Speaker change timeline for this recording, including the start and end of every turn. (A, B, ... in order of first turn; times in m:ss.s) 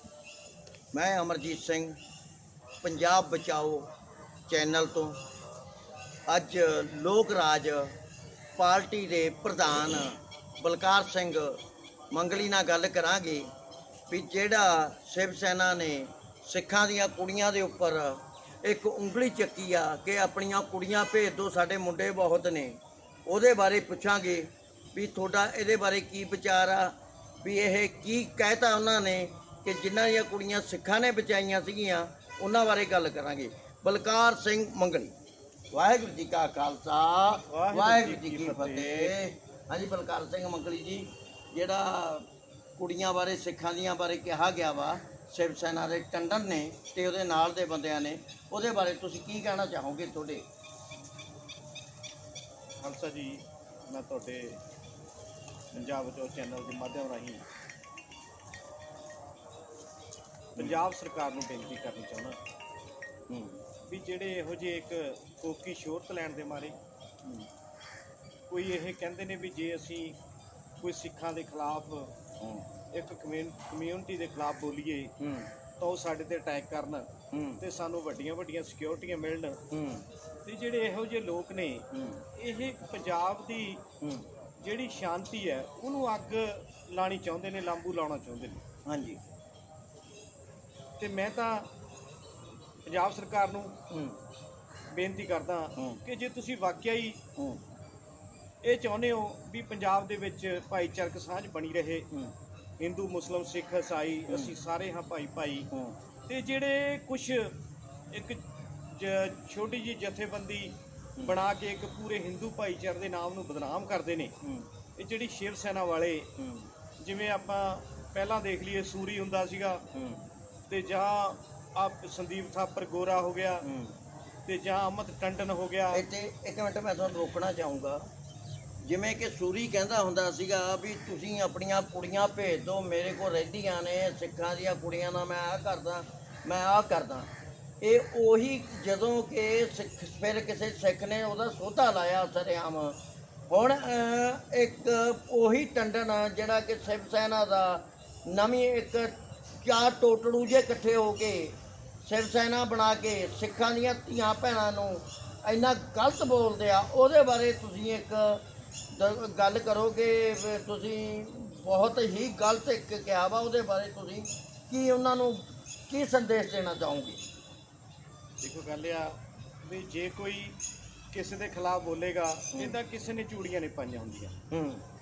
0:00.9-0:02.0 A
0:02.8-0:03.9 A
0:04.5-0:05.2 A
0:06.3-0:07.9 A
0:08.6-0:11.6 A
0:12.1-0:13.5 A
0:14.1-0:35.1 A
0:35.7-0:42.2 A
0:37.4-0:39.1 B
0:42.8-0:50.4 A
0:52.8-0:54.6 B
0:55.7-0:57.4 B
1:00.5-1:02.4 B
1:03.3-1:03.6 A
1:03.8-1:06.7 B
1:08.5-1:10.2 B
1:10.8-1:12.1 B
1:12.9-1:15.1 B
1:15.2-1:15.5 A
1:15.8-1:19.7 B
1:17.3-1:17.6 A
1:19.7-1:20.0 A
1:20.4-1:23.9 B
1:21.9-1:22.2 A
1:24.6-1:28.6 B
1:28.8-1:29.2 A
1:31.0-1:31.7 B
1:32.8-1:33.8 B
1:33.9-1:34.1 A
1:34.9-1:37.2 B
1:38.6-1:42.1 B
1:42.8-1:45.7 B
1:44.3-1:44.5 A
1:46.3-1:47.5 B
1:48.1-1:48.4 B
1:48.9-1:54.3 B
1:55.0-1:56.3 B
1:56.4-1:56.7 A
1:57.0-1:59.8 B
1:59.9-2:00.2 A
2:00.7-2:03.7 B
2:03.6-2:03.9 A
2:04.5-2:06.0 B
2:05.9-2:08.0 A
2:08.8-2:17.3 A
2:17.8-2:23.0 A
2:23.5-2:31.5 A
2:32.0-2:47.2 A
2:48.4-2:50.6 B
2:51.1-2:54.3 B
2:54.5-2:54.8 A